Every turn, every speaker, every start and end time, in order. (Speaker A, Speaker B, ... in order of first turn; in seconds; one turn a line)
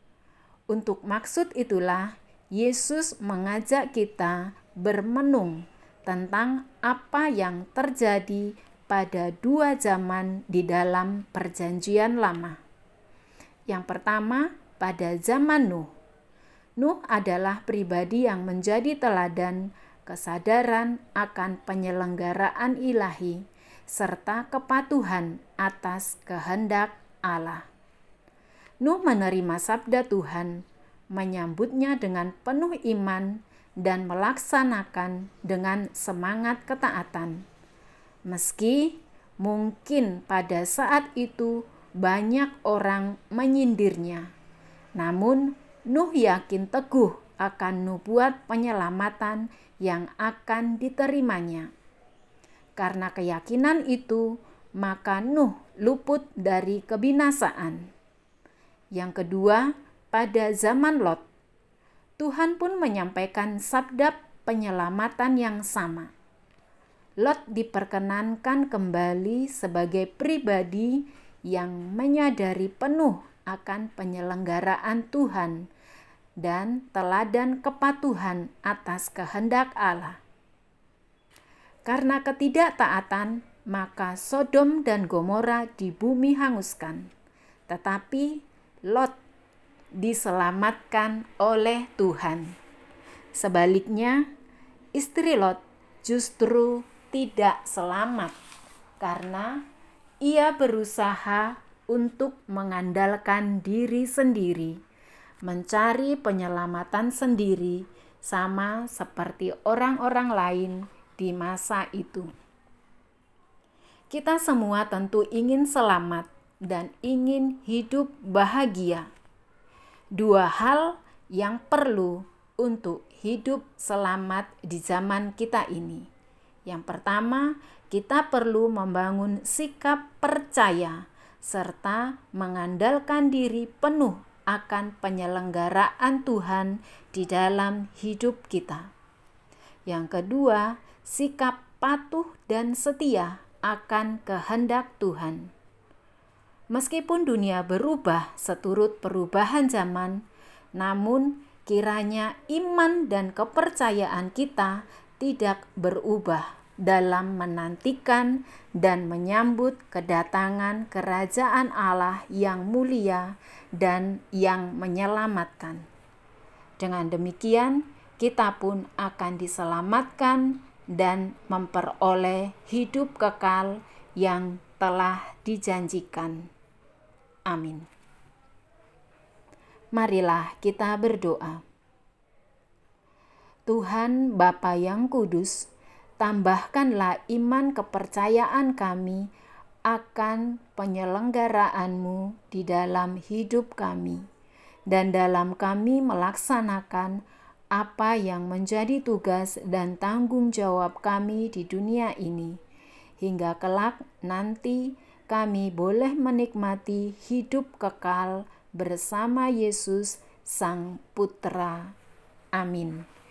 Speaker A: 0.7-12.6
Speaker A: 13.7-15.9
Speaker A: 16.8-27.7
Speaker A: 28.8-37.4
Speaker A: 38.3-44.3
Speaker A: 45.0-51.7
Speaker A: 52.8-57.9
Speaker A: 58.9-61.2
Speaker A: 62.2-66.1
Speaker A: 67.2-75.7
Speaker A: 76.4-80.2
Speaker A: 81.8-87.1
Speaker A: 87.7-89.1
Speaker A: 90.0-92.5
Speaker A: 93.3-94.2
Speaker A: 95.0-98.3
Speaker A: 99.0-99.6
Speaker A: 100.2-104.8
Speaker A: 105.4-112.3
Speaker A: 114.1-119.1
Speaker A: 120.2-126.1
Speaker A: 126.7-138.9
Speaker A: 139.9-145.5
Speaker A: 146.7-150.2
Speaker A: 150.8-165.9
Speaker A: 166.8-176.5
Speaker A: 177.5-177.9
Speaker A: 179.9-181.6
Speaker A: 183.7-185.7
Speaker A: 186.2-189.3
Speaker A: 189.9-194.2
Speaker A: 194.9-197.2
Speaker A: 197.7-202.6
Speaker A: 203.2-211.9
Speaker A: 212.5-213.1